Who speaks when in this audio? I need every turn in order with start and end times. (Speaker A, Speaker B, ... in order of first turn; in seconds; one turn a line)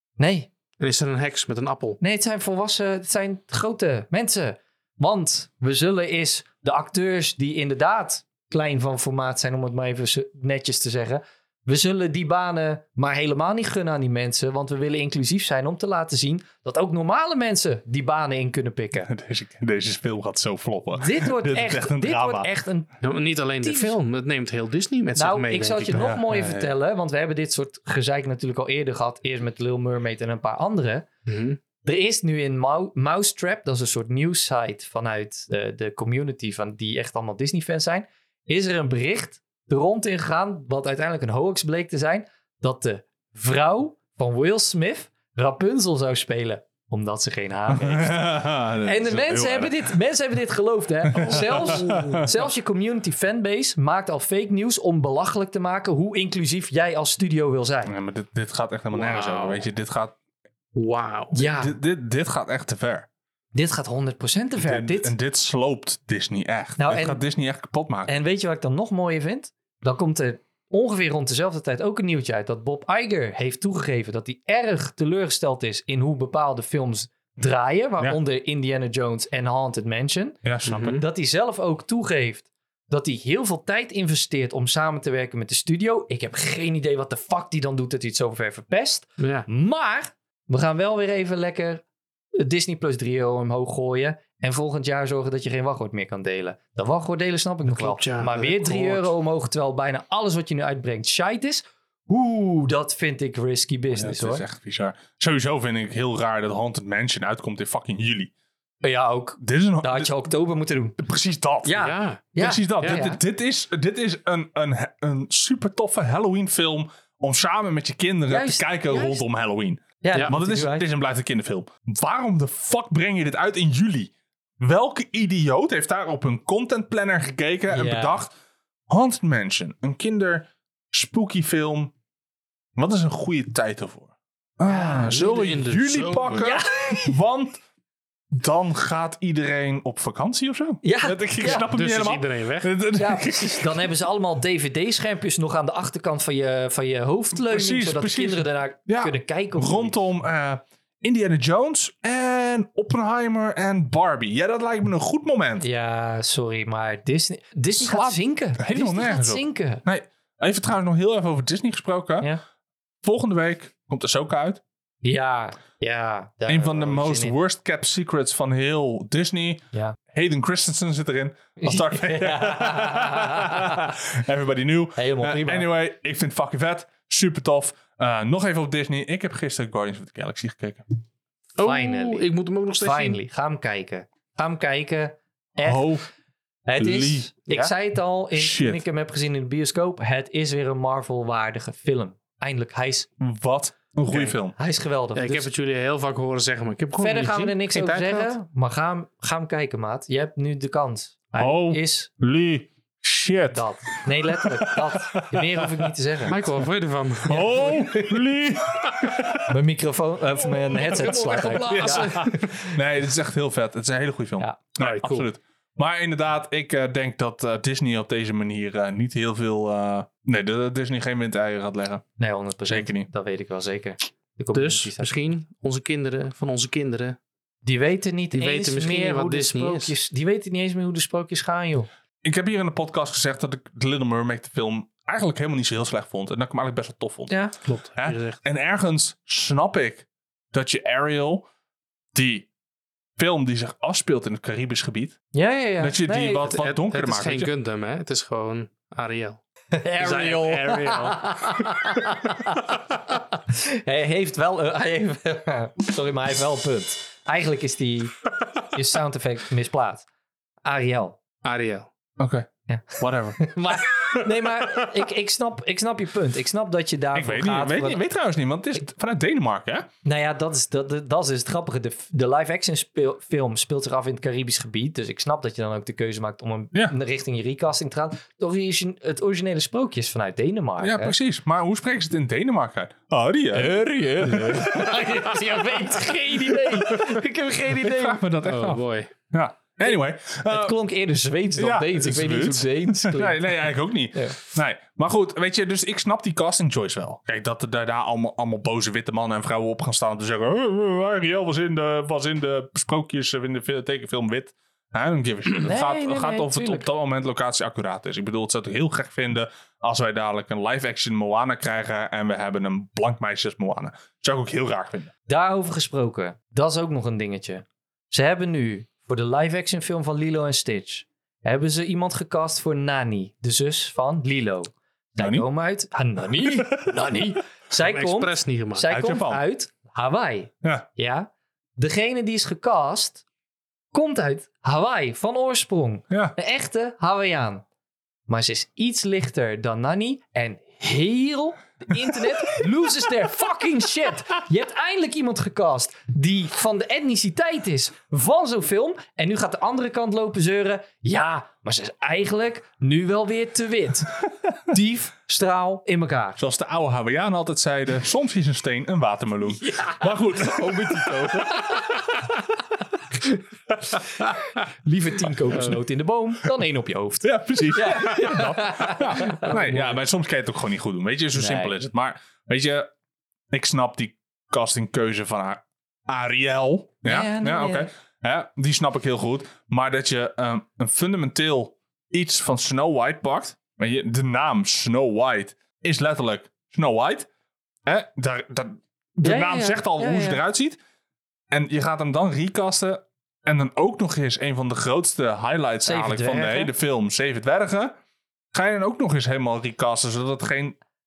Speaker A: 0.2-0.5
Speaker B: 0.8-2.0
Speaker A: 2.0-19.1
Speaker C: 19.0-22.5
Speaker A: 20.9-22.9
Speaker B: 23.0-26.1
Speaker A: 23.6-23.9
Speaker A: 25.1-31.1
Speaker C: 25.9-26.7
Speaker B: 31.3-31.6
Speaker A: 31.8-57.9
Speaker C: 47.7-49.9
Speaker C: 51.1-52.3
Speaker C: 57.9-60.1
Speaker B: 58.9-59.6
Speaker B: 60.7-61.4
Speaker A: 61.3-61.7
Speaker C: 61.3-63.1
Speaker A: 63.5-65.1
Speaker C: 64.6-68.1
Speaker A: 66.8-67.2
Speaker A: 68.1-91.8
Speaker C: 80.4-80.9
Speaker B: 80.6-81.0
Speaker B: 89.2-89.5
Speaker A: 92.4-104.4
Speaker B: 97.7-98.7
Speaker C: 98.6-99.1
Speaker C: 104.0-108.3
Speaker A: 108.8-111.0
Speaker C: 109.4-110.1
Speaker C: 111.0-128.3
Speaker A: 111.6-113.2
Speaker B: 111.8-112.2
Speaker B: 112.8-113.1
Speaker A: 118.3-119.2
Speaker A: 120.0-120.8
Speaker A: 127.7-128.2
Speaker C: 128.9-131.9
Speaker C: 132.8-137.6
Speaker A: 134.7-135.3
Speaker B: 134.9-136.5
Speaker A: 136.3-137.1
Speaker C: 138.3-143.9
Speaker A: 140.8-141.7
Speaker B: 141.7-142.7
Speaker A: 143.0-150.0
Speaker C: 147.4-155.6
Speaker A: 155.6-159.8
Speaker C: 157.7-162.3
Speaker C: 163.0-164.6
Speaker A: 165.0-167.3
Speaker C: 166.5-180.9
Speaker A: 171.6-173.9
Speaker A: 174.9-175.7
Speaker B: 181.6-183.2
Speaker A: 181.6-182.3
Speaker A: 182.8-185.9
Speaker C: 185.6-186.0
Speaker A: 186.7-193.1
Speaker C: 186.8-187.3
Speaker C: 188.3-188.8
Speaker C: 193.2-194.6
Speaker A: 194.2-195.5
Speaker B: 195.1-198.3
Speaker A: 197.0-202.1
Speaker C: 201.4-203.6
Speaker A: 203.5-206.4
Speaker C: 204.4-205.7
Speaker B: 206.3-207.9
Speaker C: 207.2-209.5
Speaker A: 209.5-212.7
Speaker B: 210.7-212.6
Speaker C: 210.7-222.1
Speaker B: 214.8-215.3
Speaker A: 222.2-225.2
Speaker C: 222.7-223.1
Speaker B: 224.5-227.2
Speaker A: 227.6-231.9
Speaker B: 228.3-229.9
Speaker C: 232.2-237.3
Speaker A: 237.3-237.5
Speaker B: 237.6-238.4
Speaker C: 238.0-241.4
Speaker C: 242.1-242.5
Speaker C: 243.2-245.3
Speaker A: 245.3-246.6
Speaker C: 245.8-247.5
Speaker B: 246.5-249.4
Speaker A: 249.7-258.2
Speaker B: 250.0-251.7
Speaker A: 258.7-260.0
Speaker A: 260.6-261.2
Speaker B: 261.4-261.9
Speaker C: 262.2-262.5
Speaker A: 262.7-268.0
Speaker C: 263.0-263.4
Speaker C: 267.1-269.9
Speaker A: 270.0-281.1
Speaker C: 280.8-283.8
Speaker A: 283.5-288.2
Speaker B: 283.9-284.9
Speaker C: 284.3-284.9
Speaker C: 287.8-290.8
Speaker B: 288.4-289.1
Speaker A: 289.8-294.4
Speaker C: 291.6-315.1
Speaker A: 305.6-306.9
Speaker A: 315.3-333.2
Speaker C: 325.2-325.4
Speaker C: 326.7-326.9
Speaker B: 327.8-328.9
Speaker C: 328.9-329.4
Speaker A: 333.9-337.6
Speaker A: 338.3-356.4
Speaker C: 356.4-361.8
Speaker A: 359.6-362.0
Speaker A: 364.6-369.9
Speaker C: 367.2-372.9
Speaker B: 369.7-369.9
Speaker A: 371.3-371.7
Speaker C: 373.5-387.3
Speaker A: 377.0-377.9
Speaker C: 387.9-390.8
Speaker A: 389.2-390.4
Speaker C: 391.5-397.9
Speaker A: 395.9-396.7
Speaker C: 398.5-400.8